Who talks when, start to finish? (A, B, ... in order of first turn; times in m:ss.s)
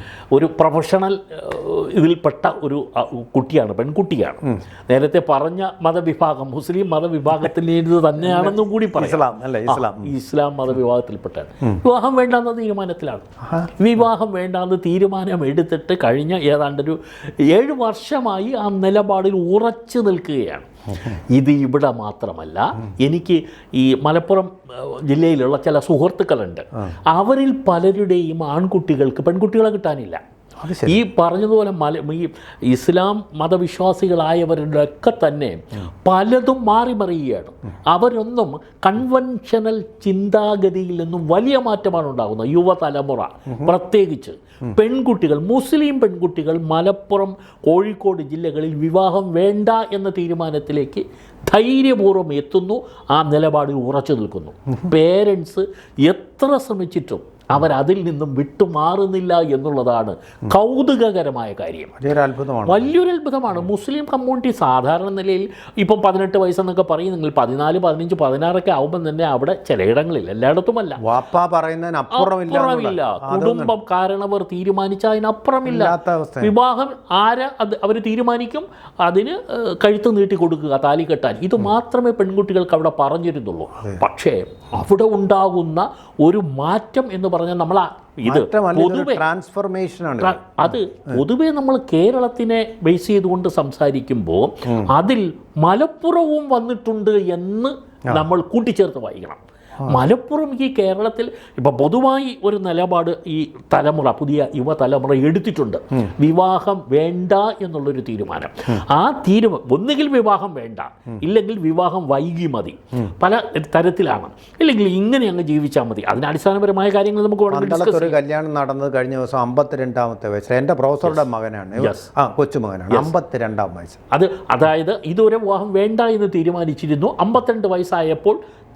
0:00.3-0:30.2 A
0:08.2-0:10.1 B
0:13.4-0:13.7 B
0:30.6-0:31.0 B
0:30.8-1:02.0 A
1:02.0-1:02.9 B
1:02.6-1:11.0 A
1:11.0-1:13.7 B
1:12.1-1:29.2 A
1:15.6-1:16.5 B
1:28.2-1:30.6 B
1:30.2-1:58.2 A
1:57.5-2:04.0 B
2:01.8-2:02.1 A
2:04.1-2:08.4 A